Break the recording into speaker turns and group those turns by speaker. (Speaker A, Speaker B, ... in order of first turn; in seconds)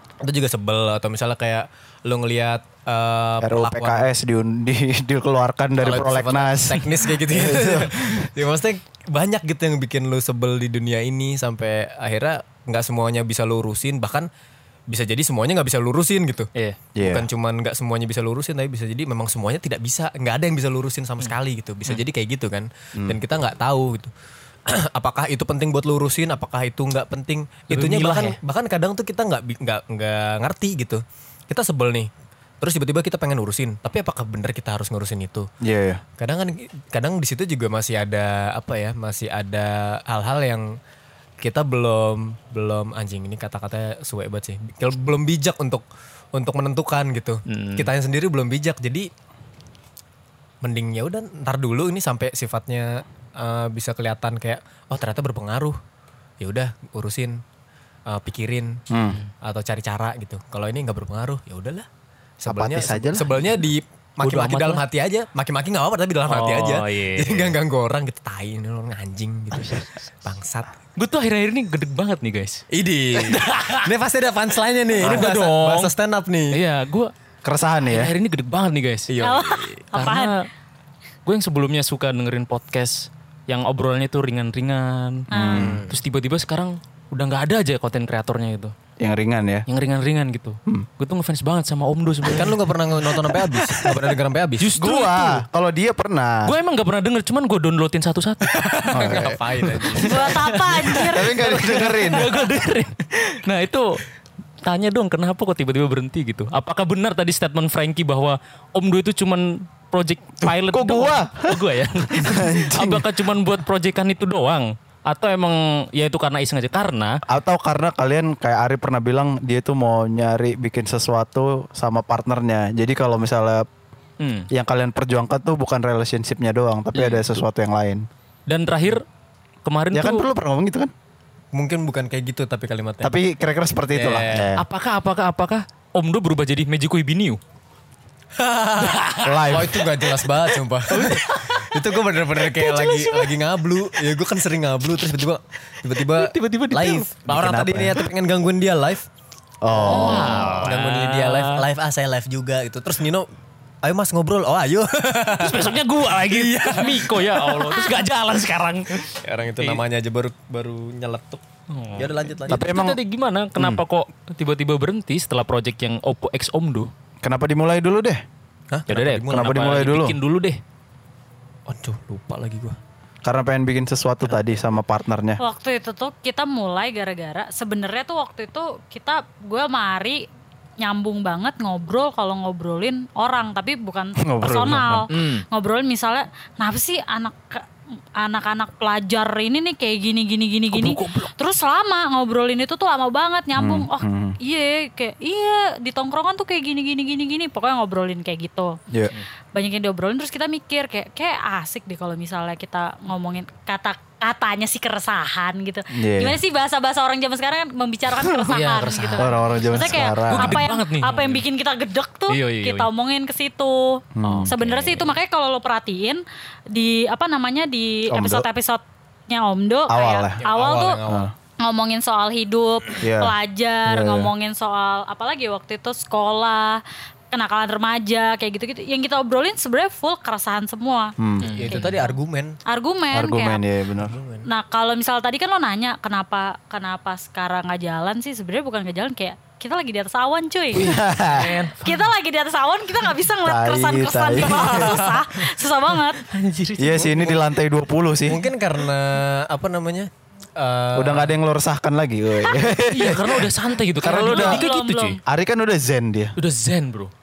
Speaker A: 0.2-4.1, 5.8-14.3, 14.9-24.1, 24.7-35.5, 36.2-40.8, 41.4-45.8, 46.3-49.1, 50.6-55.8, 56.4-57.4, 58.1-58.8, 59.4-61.9, 62.4-70.7, 72.7-76.6, 79.1-79.8, 85.5-86.0, 92.3-94.7, 98.5-100.4, 131.5-133.1, 133.9-134.5, 138.4-149.1, 149.8-153.3, 153.8-157.7, 159.2-161.4, 161.9-162.7, 168.7-169.6, 171.7-172.8, 220.4-221.3, 231.4-232.6, 234.0-234.4, 241.4-241.7, 248.2-251.4
Speaker B: 3.4-8.3, 16.9-17.3, 35.6-36.0, 58.9-59.2, 62.5-63.4, 77.4-78.1, 85.3-85.8, 89.0-89.6, 94.7-96.5, 98.9-99.4, 101.1-102.3, 110.4-111.6, 112.1-113.1, 117.3-123.7, 124.5-128.1, 129.9-130.9, 133.0-134.6, 139.2-139.8, 147.3-148.0, 149.6-150.6, 162.5-163.0, 163.6-163.8, 167.2-168.2, 169.3-170.2, 173.2-175.4, 184.2-185.1, 193.6-194.4, 205.9-206.4, 209.2-210.6, 214.1-214.5, 218.1-218.4, 219.9-220.4, 221.1-221.3, 223.0-223.3, 223.8-224.3, 231.2-231.5, 233.1-234.2, 240.7-241.5, 243.4-245.0, 246.8-248.4, 250.9-253.5, 254.0-254.7, 255.2-256.4
Speaker C: 27.7-28.4, 47.5-47.9, 64.2-64.8, 66.3-67.5, 69.6-69.8, 71.0-72.6, 73.2-73.9, 75.0-75.9, 76.5-77.1, 77.8-79.1, 79.9-80.5, 81.2-85.3, 85.9-88.7, 89.7-92.6, 94.6-95.4, 96.5-104.0, 104.6-117.2, 124.2-124.5, 126.9-127.2, 128.5-129.0, 129.6-130.3, 134.5-137.4, 138.8-139.9, 140.9-141.8, 142.4-143.4, 145.9-147.1, 149.8-151.7, 155.4-159.8, 161.7-166.9, 168.9-170.6, 185.1-185.4, 190.7-191.2, 208.2-211.4, 212.3-212.9, 214.2-215.1, 231.4-231.9, 241.3-242.0, 246.2-247.4, 252.8-255.2, 256.4-257.1
Speaker D: 79.2-80.3, 85.3-85.7, 100.0-101.5, 157.7-158.0, 175.4-180.2, 180.8-187.7, 188.2-198.8, 199.5-221.0, 221.6-231.1, 231.7-233.6, 234.4-240.9, 241.7-246.2, 254.1-255.2